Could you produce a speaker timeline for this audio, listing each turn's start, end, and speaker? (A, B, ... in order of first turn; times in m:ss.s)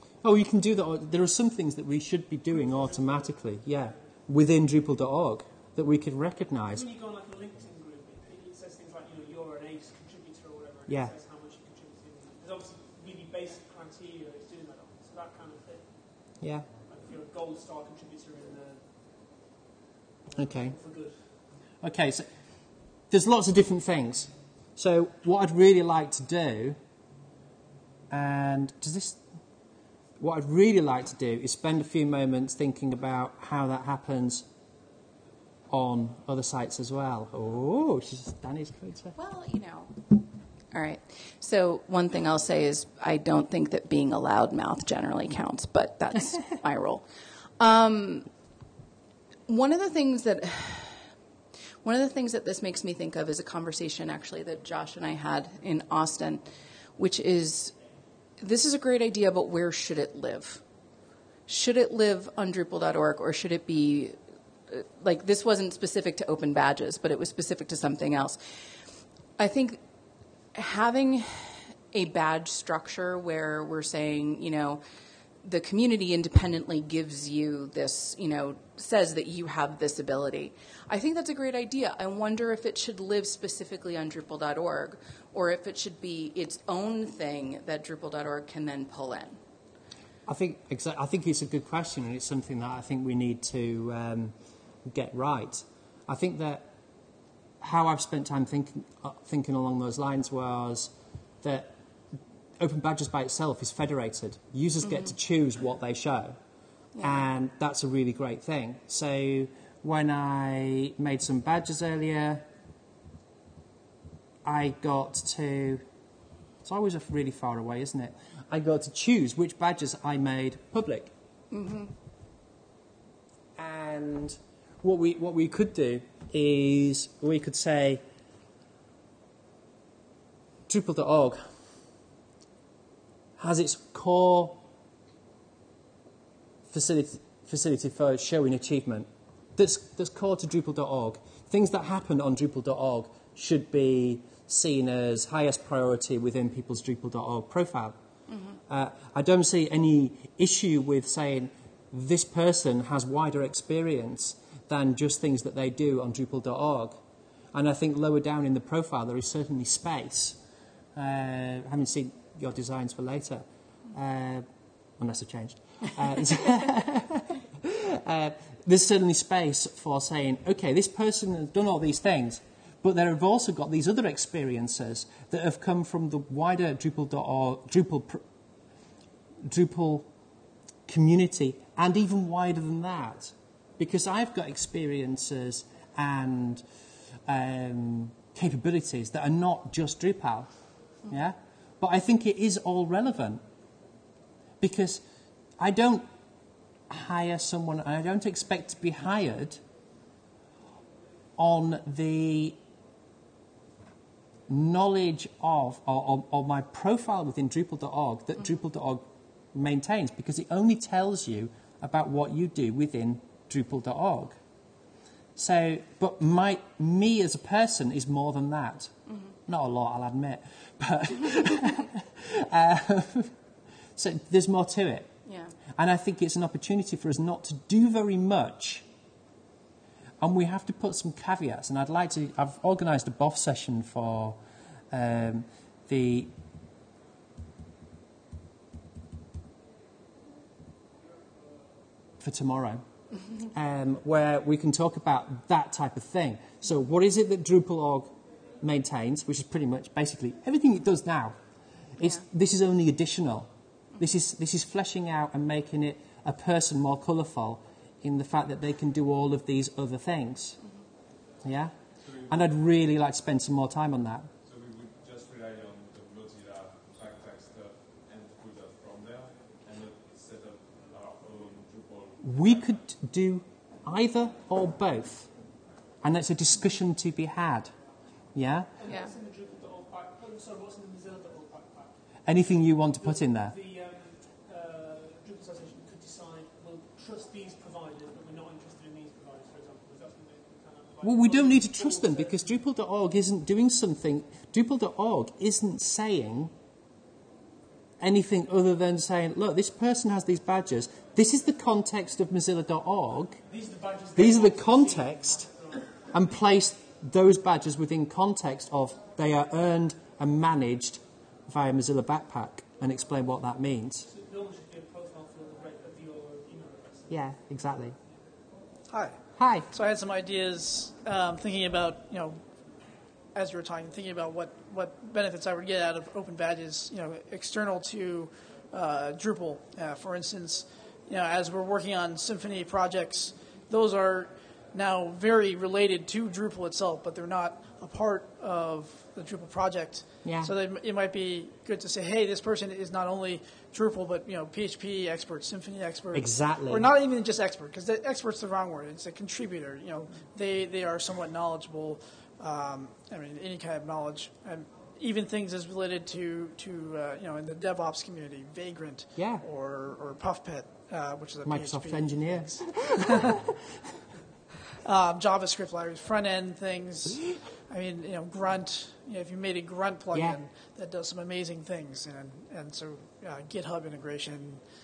0:00.2-0:06.8 A
0:02.5-0:04.1 B
0:06.7-0:19.0 B
0:10.9-0:11.2 A
0:16.4-0:16.7 A
0:20.3-0:21.2 B
0:20.4-0:20.8 A
0:21.8-0:22.3 A
0:23.1-0:26.8 A
0:28.1-0:29.2 A
0:30.2-0:34.5 A
0:35.7-0:39.2 A
0:39.2-0:40.1 C
0:40.7-0:47.1 C
0:47.6-0:48.3 C
0:49.5-0:51.0 C
0:51.8-0:57.8 C
0:58.4-1:00.6 C
1:01.5-1:04.2 C
1:04.7-1:08.4 C
1:09.4-1:09.8 C
1:10.5-1:14.8 C
1:15.4-1:29.4 C
1:30.3-1:34.4 A
1:34.9-1:36.7 A
1:37.6-1:41.8 A
1:42.6-1:46.4 A
1:44.9-1:45.1 C
1:47.0-1:47.3 C
1:47.0-1:52.4 A
1:54.4-1:55.8 A
1:56.6-2:01.1 A
2:01.5-2:01.9 C
2:03.6-2:08.0 A
2:10.7-2:11.5 A
2:13.4-2:14.6 A
2:16.7-2:28.0 A
2:28.3-2:28.6 C
2:28.7-2:37.0 A
2:37.5-2:40.4 A
2:41.0-2:44.5 A
2:45.0-2:58.2 A
2:59.4-3:00.1 A
3:00.9-3:06.6 A
3:07.3-3:10.5 A
3:11.1-3:13.4 A
3:14.6-3:15.0 A
3:15.6-3:16.1 A
3:16.9-3:19.6 A
3:21.4-3:22.6 A
3:24.5-3:34.4 A
3:35.4-3:39.0 A
3:39.5-3:43.4 A
3:44.0-3:45.1 A
3:45.2-3:45.6 C
3:45.7-3:48.9 A
3:50.2-3:54.4 A
3:54.9-3:56.3 A
4:02.2-4:02.8 A
4:03.5-4:11.4 A
4:12.0-4:20.6 A
4:21.4-4:21.7 A
4:22.0-4:22.5 D
4:22.3-4:24.3 A
4:24.4-4:32.3 D
4:32.2-4:35.3 A
4:36.0-4:37.7 A
4:38.4-4:38.7 A
4:38.8-4:42.0 B
4:38.9-4:39.1 C
4:42.3-4:43.6 A
4:43.0-4:52.5 B
4:51.0-4:56.5 A
4:58.0-5:03.4 A
5:03.5-5:05.8 B
5:04.2-5:05.5 A
5:06.1-5:14.1 A
5:14.1-5:17.2 B
5:17.1-5:18.0 A
5:18.9-5:22.4 E
5:19.4-5:19.7 A
5:23.4-6:03.4 E
5:40.2-5:40.5 A
5:46.1-5:46.9 A
5:59.2-5:59.4 A
6:01.4-6:03.3 A
6:04.8-6:14.6 E
6:10.1-6:10.4 A